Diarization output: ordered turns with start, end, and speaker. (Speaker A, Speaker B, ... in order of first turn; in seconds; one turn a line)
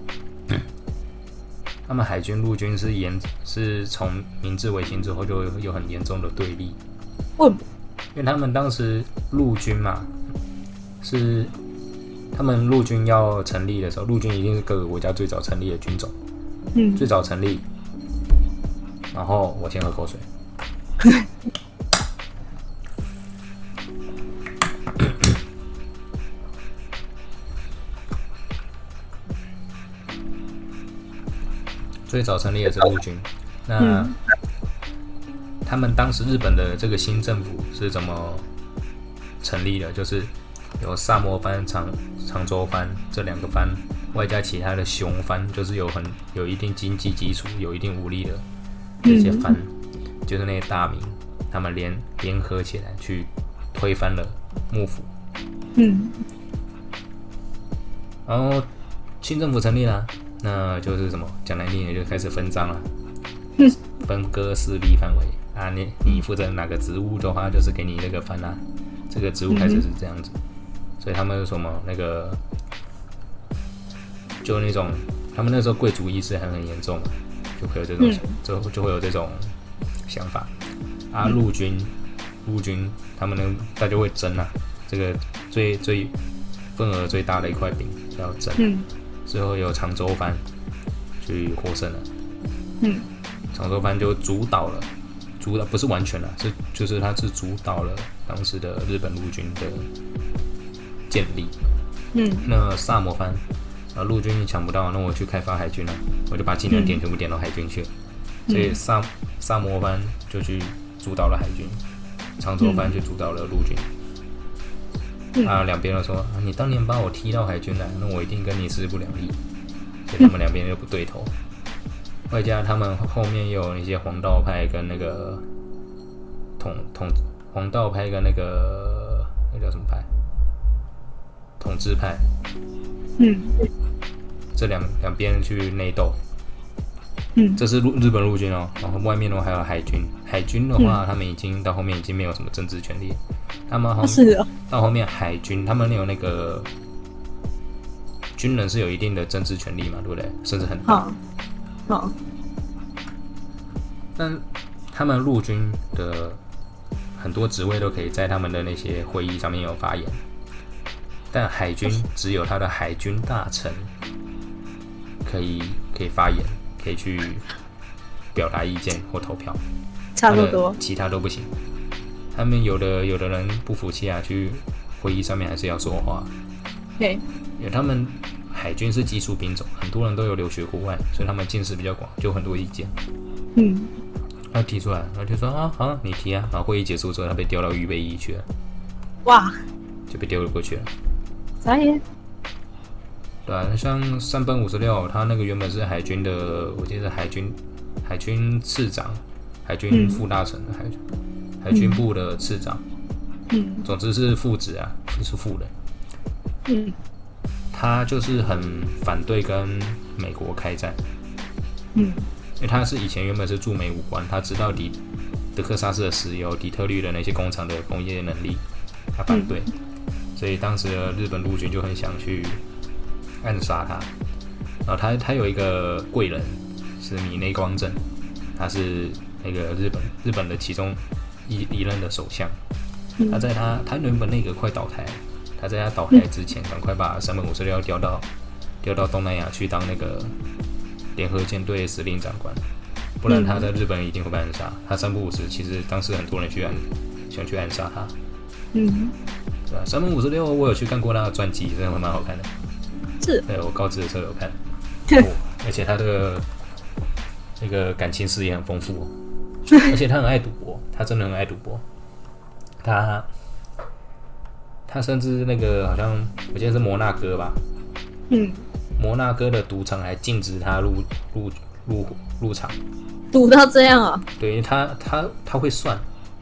Speaker A: 1.9-6.8
Speaker B: 7.4-7.6
Speaker A: 8.1-10.1
Speaker A: 11.0-11.5
Speaker A: 12.3-16.1
Speaker B: 16.8-17.1
Speaker A: 17.0-17.7
Speaker A: 19.1-20.3
Speaker A: 32.1-34.1
Speaker B: 33.8-34.1
Speaker A: 35.6-38.5
Speaker A: 39.4-48.5
Speaker B: 49.0-49.6
Speaker A: 49.1-49.7
Speaker A: 50.2-55.1
Speaker B: 55.8-56.2
Speaker A: 58.3-58.7
Speaker A: 59.2-62.9
Speaker A: 63.9-70.3
Speaker B: 69.5-69.8
Speaker A: 71.0-72.4
Speaker A: 74.4-79.5
Speaker B: 78.0-78.4
Speaker A: 80.1-80.5
Speaker A: 81.1-81.9
Speaker A: 82.4-86.1
Speaker A: 86.7-88.7
Speaker B: 88.6-88.9
Speaker A: 89.3-90.4
Speaker A: 91.2-92.1
Speaker B: 92.8-93.1
Speaker A: 93.5-94.9
Speaker A: 95.4-99.9
Speaker A: 101.1-101.5
Speaker B: 102.1-102.5
Speaker A: 102.4-103.4
Speaker A: 104.0-107.9
Speaker B: 106.7-107.0
Speaker B: 108.5-108.8
Speaker A: 108.5-111.8
Speaker A: 112.4-113.9
Speaker B: 112.6-112.9
Speaker B: 115.3-115.6
Speaker A: 115.4-119.4
Speaker A: 120.1-121.3
Speaker A: 122.3-125.5
Speaker A: 126.6-130.1
Speaker A: 131.6-132.2
Speaker B: 133.2-133.6
Speaker A: 134.5-136.2
Speaker B: 137.4-137.6
Speaker A: 137.6-146.7
Speaker B: 144.0-144.5
Speaker A: 148.4-151.0
Speaker B: 150.9-151.2
Speaker B: 151.9-152.2
Speaker A: 154.2-156.4
Speaker A: 157.2-160.2
Speaker A: 161.3-163.9
Speaker A: 165.2-167.4
Speaker A: 168.3-169.6
Speaker B: 170.2-170.8
Speaker A: 170.3-171.5
Speaker A: 172.3-176.3
Speaker A: 177.6-182.9
Speaker B: 183.6-183.9
Speaker A: 184.5-188.5
Speaker B: 189.2-189.6
Speaker A: 190.1-190.9
Speaker B: 191.6-192.0
Speaker A: 193.5-201.0
Speaker B: 199.9-200.2
Speaker A: 201.6-202.8
Speaker B: 201.7-202.0
Speaker B: 203.5-203.9
Speaker A: 203.8-205.7
Speaker B: 206.7-207.0
Speaker A: 207.7-211.0
Speaker B: 211.9-212.3
Speaker A: 212.6-215.0
Speaker A: 215.6-218.6
Speaker A: 219.2-219.7
Speaker B: 219.3-219.5
Speaker A: 220.4-222.6
Speaker A: 223.4-224.1
Speaker A: 224.8-228.0
Speaker A: 228.6-232.6
Speaker A: 233.3-238.3
Speaker A: 238.8-240.4
Speaker A: 241.2-242.6
Speaker A: 243.2-248.2
Speaker B: 243.3-243.7
Speaker B: 248.7-249.2
Speaker A: 249.7-252.5
Speaker A: 253.5-254.6
Speaker A: 255.1-256.5
Speaker A: 257.6-259.1
Speaker A: 259.8-261.8
Speaker A: 262.8-263.3
Speaker A: 264.9-267.6
Speaker B: 268.3-268.7
Speaker A: 269.0-272.8
Speaker B: 273.3-274.3
Speaker A: 274.4-276.1